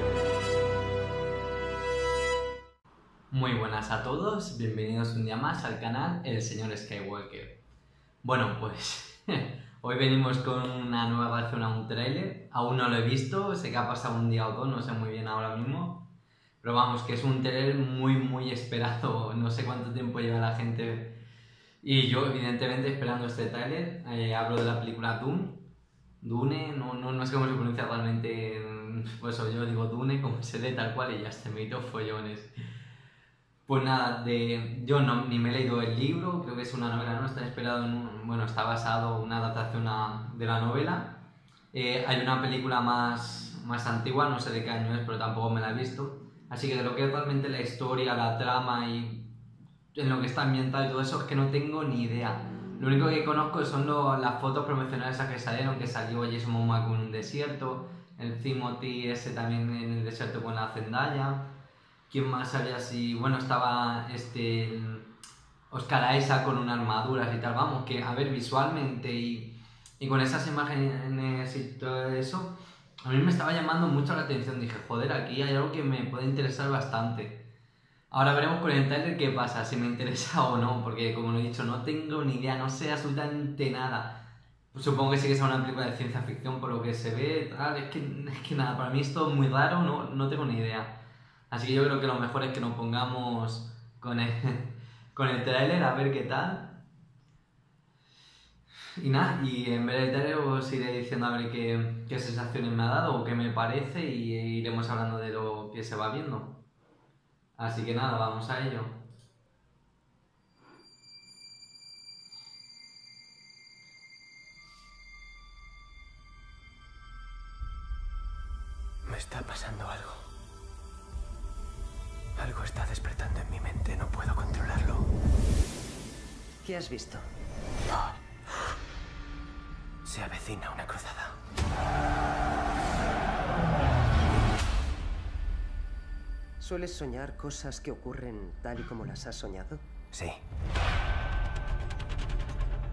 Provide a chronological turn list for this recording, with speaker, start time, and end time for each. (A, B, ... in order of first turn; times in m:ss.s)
0:03.3-0:07.6 A
0:08.2-0:16.1 A
0:16.6-0:21.2 A
0:21.8-0:32.5 A
0:33.7-0:49.4 A
0:49.9-1:01.6 A
1:02.1-1:05.1 A
1:05.7-1:17.5 A
1:18.1-1:36.8 A
1:39.0-1:46.6 A
1:47.6-1:49.1 A
1:59.0-2:00.3 B
2:02.4-2:05.1 B
2:06.6-2:07.2 C
2:10.0-2:11.4 B
2:16.6-2:19.8 C
2:20.1-2:20.4 B